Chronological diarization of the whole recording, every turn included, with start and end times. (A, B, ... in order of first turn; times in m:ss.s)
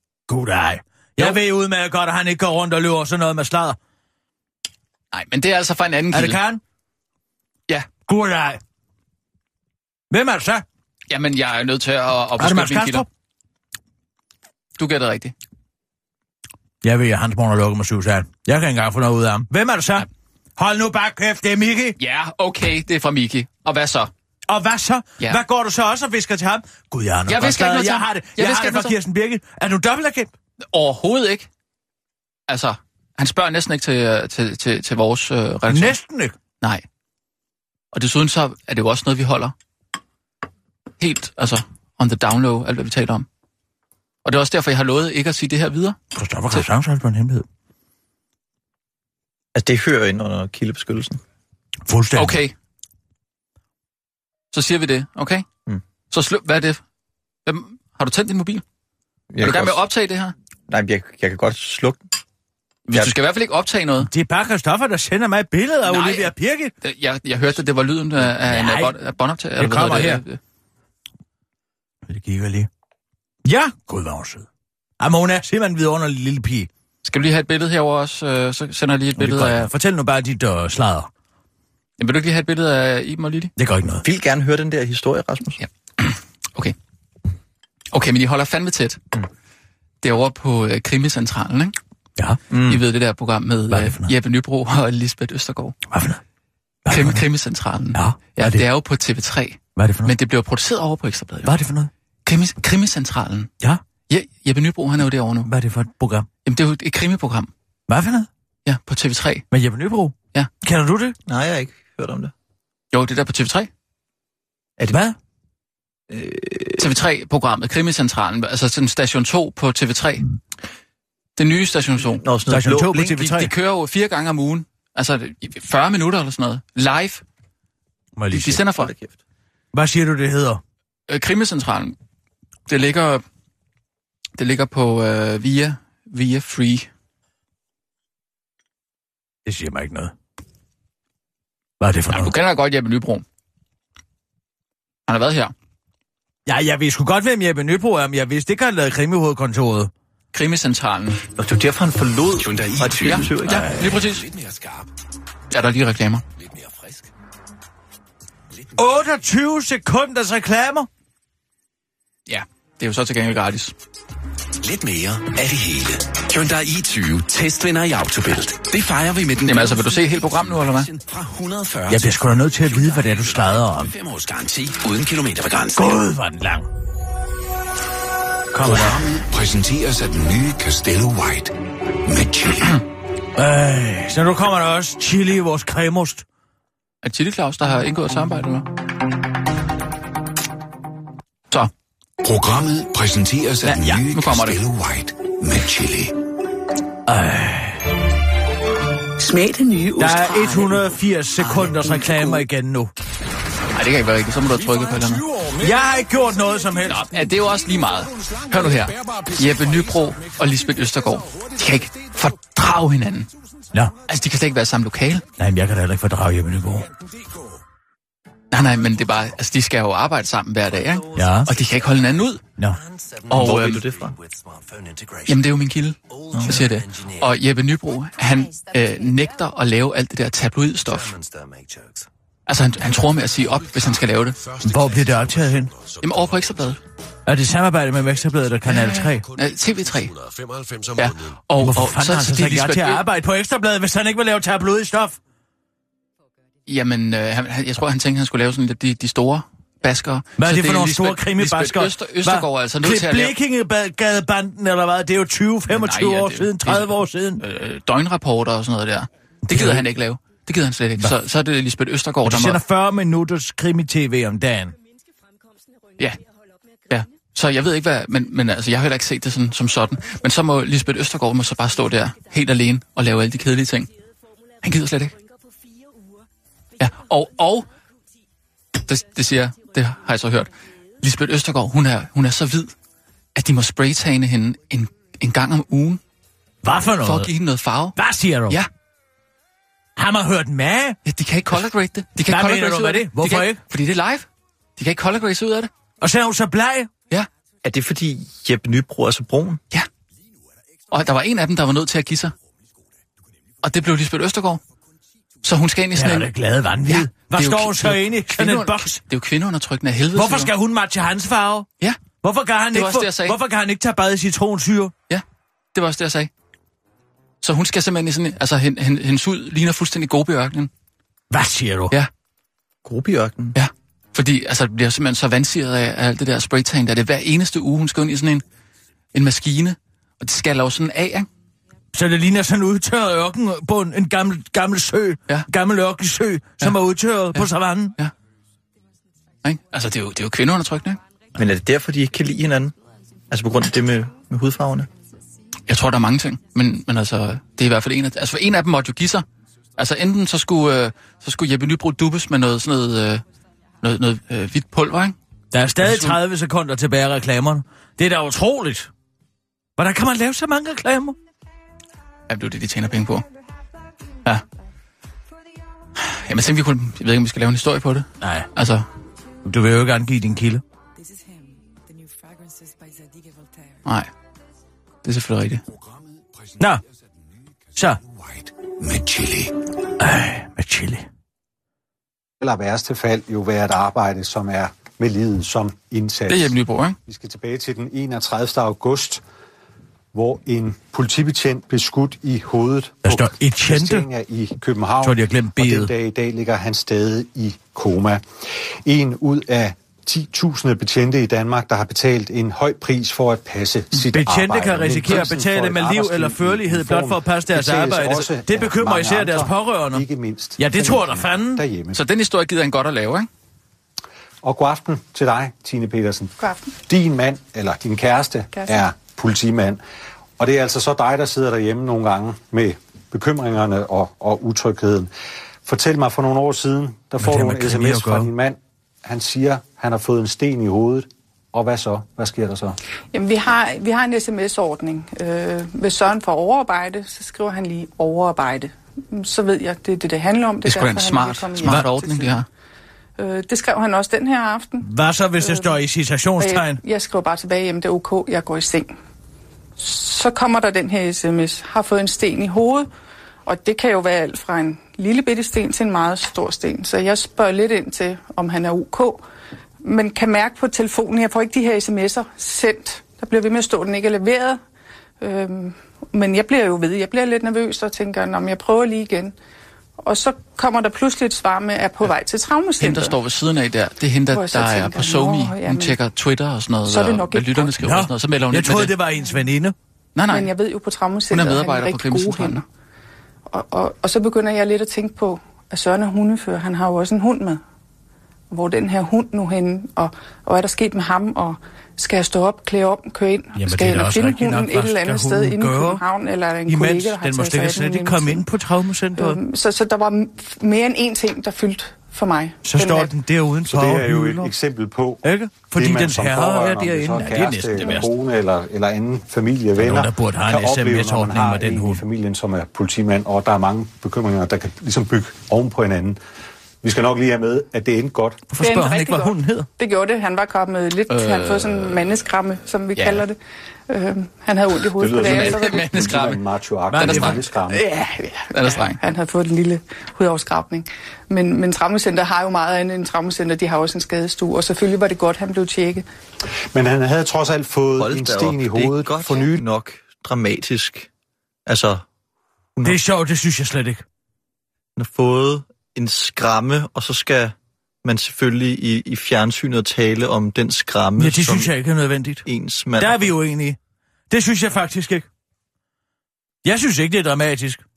0:00.3-0:03.8 A
0:05.1-0:06.4 B
0:06.1-0:06.6 A
0:08.1-0:08.6 A
0:10.1-0:10.6 A
0:11.1-0:13.1 B
0:12.4-0:13.1 A
0:14.8-0:15.3 B
0:16.8-0:22.0 A
0:22.0-0:24.1 B
0:24.5-0:30.3 A
0:27.3-0:29.0 B
0:30.7-0:31.5 B
0:32.5-0:36.0 B
0:35.7-0:36.4 A
0:37.9-0:39.5 B
0:41.0-0:43.3 B
0:44.2-0:46.0 B
0:46.1-0:47.5 A
0:49.6-0:51.2 C
0:51.9-0:52.4 A
0:52.2-0:52.5 B
0:54.5-0:55.5 B
0:56.1-0:56.8 B
0:57.5-0:58.6 B
0:59.3-0:59.8 C
0:59.4-1:00.3 B
1:00.7-1:02.0 C
1:02.9-1:04.1 B
1:04.0-1:06.7 A
1:05.9-1:10.4 B
1:08.2-1:09.0 A
1:09.6-1:10.2 A
1:12.1-1:12.7 A
1:13.4-1:14.5 A
1:15.0-1:16.7 A
1:17.0-1:19.7 B
1:19.2-1:21.1 A
1:22.0-1:23.5 B
1:23.6-1:24.0 A
1:24.0-1:25.6 C
1:25.6-1:26.8 B
1:27.9-1:29.0 B
1:30.0-1:31.8 B
1:32.5-1:32.8 C
1:32.6-1:35.8 B
1:33.7-1:34.1 A
1:35.9-1:36.2 A
1:36.8-1:37.2 A
1:36.9-1:41.5 B
1:37.9-1:38.6 A
1:39.8-1:40.1 A
1:41.4-1:41.9 A
1:42.2-1:43.5 B
1:44.1-1:45.5 B
1:45.4-1:46.3 A
1:46.4-1:47.5 B
1:47.9-1:48.3 A
1:48.7-1:49.5 B
1:49.5-1:51.2 A
1:51.3-1:52.3 C
1:52.9-1:53.7 B
1:54.9-1:55.2 A
1:56.1-1:56.9 C
1:56.8-2:00.2 B
2:01.4-2:02.2 B
2:02.1-2:03.2 C
2:02.5-2:03.5 A
2:03.0-2:07.2 B
2:08.2-2:08.7 A
2:08.3-2:08.9 B
2:08.7-2:09.1 C
2:09.7-2:10.6 A
2:11.1-2:12.0 B
2:12.7-2:13.2 B
2:14.4-2:16.9 B
2:19.4-2:20.1 A
2:21.8-2:22.4 A
2:22.1-2:23.2 B
2:25.1-2:25.5 B
2:26.5-2:29.9 A
2:30.3-2:31.2 B
2:31.4-2:33.7 C
2:32.4-2:34.9 D
2:33.0-2:34.3 B
2:33.5-2:33.8 A
2:35.5-2:36.2 B
2:36.4-2:37.1 D
2:38.8-2:40.9 A
2:42.3-2:43.7 B
2:44.6-2:56.0 D
2:49.4-2:50.9 B
2:51.9-2:53.9 A
2:55.7-2:56.7 A
2:58.5-2:59.1 A
2:58.6-3:01.5 D
3:02.0-3:02.8 D
3:03.4-3:06.2 A
3:07.0-3:08.7 B
3:12.2-3:16.2 D
3:13.6-3:14.0 A
3:14.1-3:14.6 B
3:17.1-3:17.9 A
3:19.2-3:20.8 E
3:20.0-3:22.9 A
3:21.4-3:22.4 E
3:23.7-3:25.2 B
3:25.3-3:25.6 D
3:25.6-3:27.1 A
3:26.8-3:33.3 B
3:34.1-3:35.2 B
3:35.4-3:36.9 A
3:38.5-3:42.4 B
3:41.1-3:41.5 A
3:43.1-3:45.4 D
3:43.3-3:43.9 B
3:43.3-3:44.2 C
3:45.3-3:51.1 B
3:46.1-3:47.3 D
3:46.3-3:46.6 C
3:48.1-3:49.4 F
3:50.9-3:52.0 D
3:52.5-3:54.4 B
3:53.6-3:56.4 D
3:54.6-3:55.7 A
3:56.0-3:56.8 B
3:57.2-3:59.3 A
3:58.7-4:00.1 B
4:00.0-4:01.1 D
4:01.0-4:03.0 B
4:01.6-4:05.2 A
4:06.7-4:13.4 B
4:10.4-4:17.4 A
4:15.7-4:22.6 B
4:19.5-4:19.9 A
4:22.2-4:24.8 A
4:26.9-4:33.9 B
4:34.6-4:35.1 B
4:35.2-4:36.2 F
4:36.8-4:37.2 F
4:36.8-4:37.7 B
4:38.8-4:42.7 B
4:40.0-4:40.3 F
4:43.4-4:46.0 B
4:46.6-4:47.3 A
4:47.0-4:48.0 B
4:48.0-4:48.6 A
4:50.0-4:51.0 A
4:51.0-4:55.7 B
4:52.2-4:53.6 A
4:56.0-4:56.9 A
4:57.6-4:59.6 C
5:00.9-5:02.3 B
5:03.6-5:04.6 B
5:05.4-5:06.3 B
5:05.9-5:09.0 A
5:06.9-5:10.5 B
5:10.2-5:11.7 A
5:12.2-5:14.9 A
5:12.7-5:13.4 B
5:15.1-5:16.3 B
5:17.4-5:20.7 B
5:21.3-5:21.9 A
5:22.8-5:23.6 C
5:23.6-5:28.4 B
5:29.1-5:31.3 B
5:31.9-5:38.0 A
5:37.3-5:38.1 B
5:39.4-5:41.0 B
5:39.4-5:41.6 F
5:41.4-5:42.7 C
5:43.3-5:44.9 C
5:43.3-5:45.2 F
5:45.7-5:49.3 B
5:49.8-5:53.2 B
5:53.8-5:55.2 B
5:55.5-5:58.9 A
5:55.8-5:56.2 B
5:59.8-6:01.2 A
6:02.3-6:03.2 B
6:06.0-6:08.9 B
6:08.2-6:08.5 A
6:09.4-6:10.6 A
6:11.0-6:14.1 F
6:13.8-6:14.1 B
6:15.0-6:15.6 B
6:18.0-6:19.5 D
6:20.0-6:21.1 A
6:22.4-6:26.5 G
6:26.3-6:27.0 B
6:27.1-6:29.2 G
6:30.1-6:38.2 G
6:33.0-6:34.1 A
6:35.0-6:35.9 A
6:38.8-6:52.0 G
6:44.1-6:50.0 A
6:50.6-6:51.6 A
6:51.9-6:53.3 B
6:54.4-6:59.8 G
6:56.4-6:56.7 H
6:58.5-6:58.8 H
7:00.4-7:05.1 G
7:05.6-7:12.8 G
7:07.2-7:08.3 A
7:13.1-7:22.4 H
7:20.6-7:22.5 B
7:23.2-7:24.9 H
7:24.8-7:26.8 A
7:25.4-7:25.8 H
7:26.4-7:28.9 H
7:29.8-7:32.9 H
7:33.5-7:39.2 H
7:39.8-7:44.6 H
7:45.2-7:49.4 H
7:50.0-7:53.2 H
7:52.8-7:59.0 B
7:54.3-7:56.0 H
7:56.9-7:57.7 H
7:57.8-7:59.8 A
8:00.2-8:00.5 B
8:00.3-8:02.6 H
8:01.3-8:02.6 B
8:03.5-8:07.6 H
8:08.5-8:18.5 H
8:13.6-8:16.0 A
8:16.7-8:19.4 A
8:19.2-8:23.2 H
8:22.6-8:24.5 A
8:23.7-8:36.2 G
8:25.2-8:28.1 A
8:29.8-8:32.0 A
8:36.8-8:38.4 G
8:38.5-8:39.7 A
8:38.6-8:43.4 H
8:41.1-8:42.2 B
8:43.0-8:43.3 B
8:43.9-8:46.2 H
8:45.0-8:47.8 G
8:45.1-8:49.0 B
8:46.9-8:47.4 A
8:48.9-8:56.0 H
8:56.7-8:59.6 G
8:58.0-9:01.1 C
9:01.7-9:02.0 C
9:02.8-9:03.0 C
9:02.8-9:04.0 A
9:05.0-9:11.7 C
9:11.2-9:12.4 A
9:12.4-9:13.3 C
9:13.0-9:13.8 A
9:14.3-9:15.3 A
9:16.6-9:17.8 A